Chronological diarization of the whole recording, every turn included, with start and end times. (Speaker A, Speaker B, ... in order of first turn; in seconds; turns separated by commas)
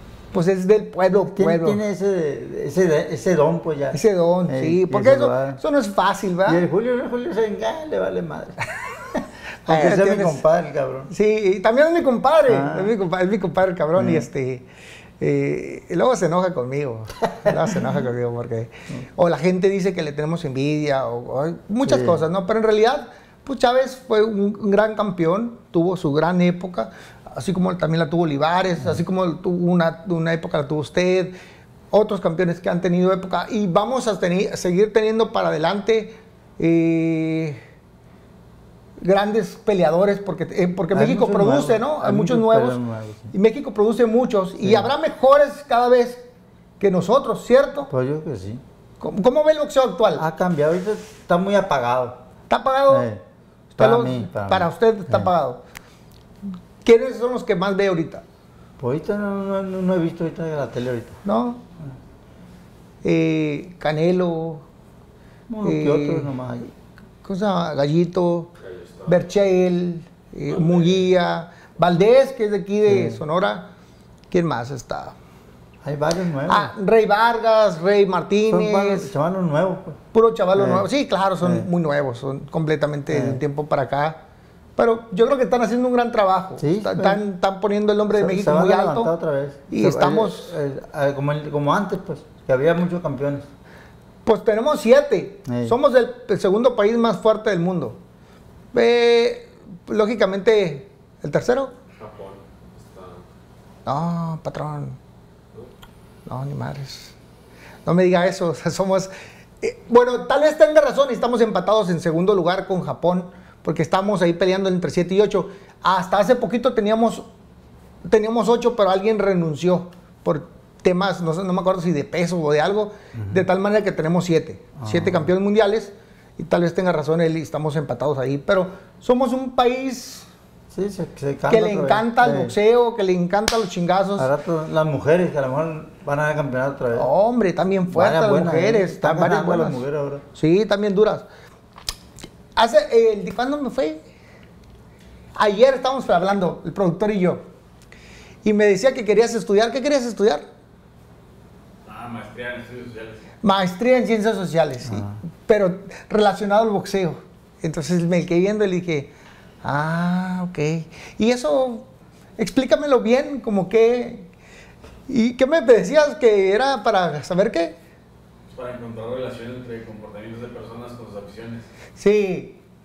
Speaker A: 0.3-1.8, Speaker B: 1.3-5.6, Speaker A: 3.9-6.6, Speaker B: 6.5-8.6, Speaker B: 9.1-11.1, Speaker A: 9.7-10.4, Speaker A: 11.1-14.7, Speaker B: 12.5-12.9, Speaker B: 13.9-14.3, Speaker A: 15.2-31.4, Speaker B: 21.8-22.2, Speaker A: 31.9-37.6, Speaker A: 39.0-42.8, Speaker B: 40.9-43.3, Speaker A: 43.3-46.2, Speaker B: 44.6-44.9, Speaker A: 46.8-47.9, Speaker B: 47.9-48.6, Speaker A: 49.0-50.2, Speaker B: 50.1-52.2, Speaker A: 52.5-53.1, Speaker B: 52.9-53.2, Speaker A: 53.8-55.6, Speaker B: 53.8-55.3, Speaker A: 56.8-58.2, Speaker B: 58.8-61.2, Speaker A: 61.2-61.6, Speaker A: 63.0-64.6, Speaker B: 65.5-66.7, Speaker A: 65.6-66.3, Speaker A: 67.2-68.5, Speaker C: 68.6-69.1, Speaker A: 69.1-73.6, Speaker C: 70.5-71.0, Speaker B: 72.9-73.2, Speaker A: 74.3-75.1, Speaker B: 75.8-76.7, Speaker A: 76.5-79.1, Speaker B: 78.5-80.0, Speaker A: 80.1-84.2, Speaker B: 80.5-80.9, Speaker B: 81.4-81.7, Speaker B: 83.1-83.4, Speaker A: 84.8-89.1, Speaker B: 86.6-87.2, Speaker B: 88.1-93.5, Speaker A: 89.7-90.5, Speaker A: 94.2-98.0, Speaker B: 95.5-95.8, Speaker A: 98.7-101.7, Speaker C: 101.9-103.2, Speaker A: 103.8-105.0, Speaker A: 106.3-107.1, Speaker A: 107.8-117.2, Speaker A: 118.0-130.3, Speaker B: 123.1-123.4, Speaker B: 124.8-125.3, Speaker B: 130.7-132.5, Speaker A: 131.5-134.3, Speaker B: 134.2-137.1, Speaker A: 136.9-139.8, Speaker B: 137.9-140.2, Speaker A: 140.3-141.2, Speaker A: 142.6-144.0, Speaker A: 145.4-147.4, Speaker A: 148.4-150.4, Speaker C: 151.8-153.2, Speaker A: 153.4-159.1, Speaker B: 154.8-155.2, Speaker A: 159.6-161.9, Speaker A: 162.4-164.3, Speaker A: 165.1-167.7, Speaker C: 168.5-171.7, Speaker A: 172.0-172.6